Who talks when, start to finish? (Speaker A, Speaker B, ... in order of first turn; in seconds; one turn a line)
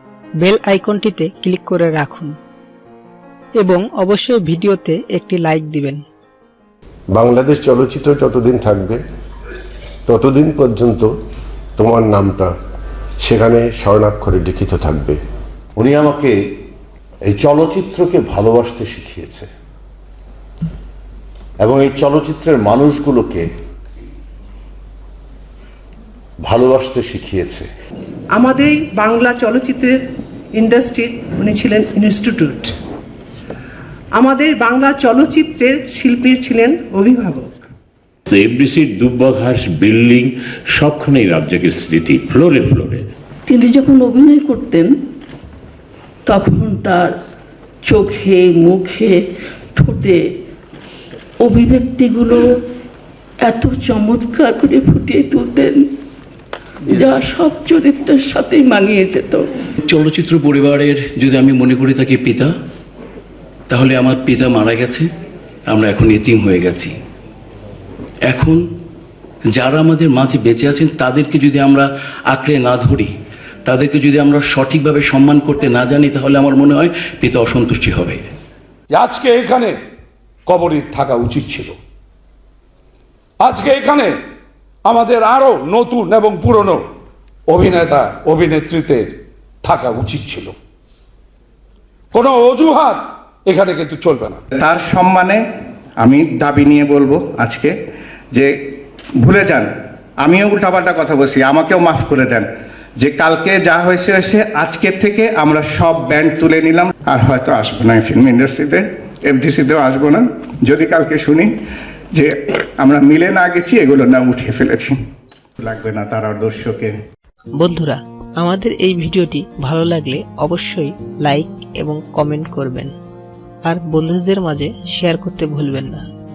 Speaker A: 0.4-2.4
Speaker A: 3.6-6.0
Speaker B: 7.1-9.0
Speaker B: 10.1-11.1
Speaker B: 11.8-12.5
Speaker B: 13.2-15.2
Speaker C: 15.8-16.4
Speaker C: 17.3-19.5
Speaker C: 21.6-23.5
Speaker C: 26.4-27.7
Speaker D: 28.3-30.0
Speaker D: 30.5-32.8
Speaker D: 34.1-37.7
Speaker E: 38.3-43.1
Speaker F: 43.5-44.9
Speaker F: 46.3-47.1
Speaker F: 47.9-49.2
Speaker F: 49.8-50.2
Speaker F: 51.4-52.4
Speaker F: 53.4-55.9
Speaker F: 56.9-59.5
Speaker G: 59.8-62.5
Speaker G: 63.7-65.1
Speaker G: 65.7-67.0
Speaker G: 68.3-68.6
Speaker G: 69.5-73.1
Speaker G: 73.7-78.3
Speaker H: 78.9-79.8
Speaker H: 80.5-81.8
Speaker H: 83.4-84.2
Speaker H: 84.8-86.8
Speaker H: 87.5-90.5
Speaker H: 92.1-94.4
Speaker I: 94.6-95.4
Speaker I: 96.0-97.8
Speaker I: 99.2-99.7
Speaker I: 100.2-102.5
Speaker I: 103.0-111.5
Speaker I: 112.2-115.0
Speaker I: 115.6-117.0
Speaker A: 117.6-122.9
Speaker A: 123.7-126.1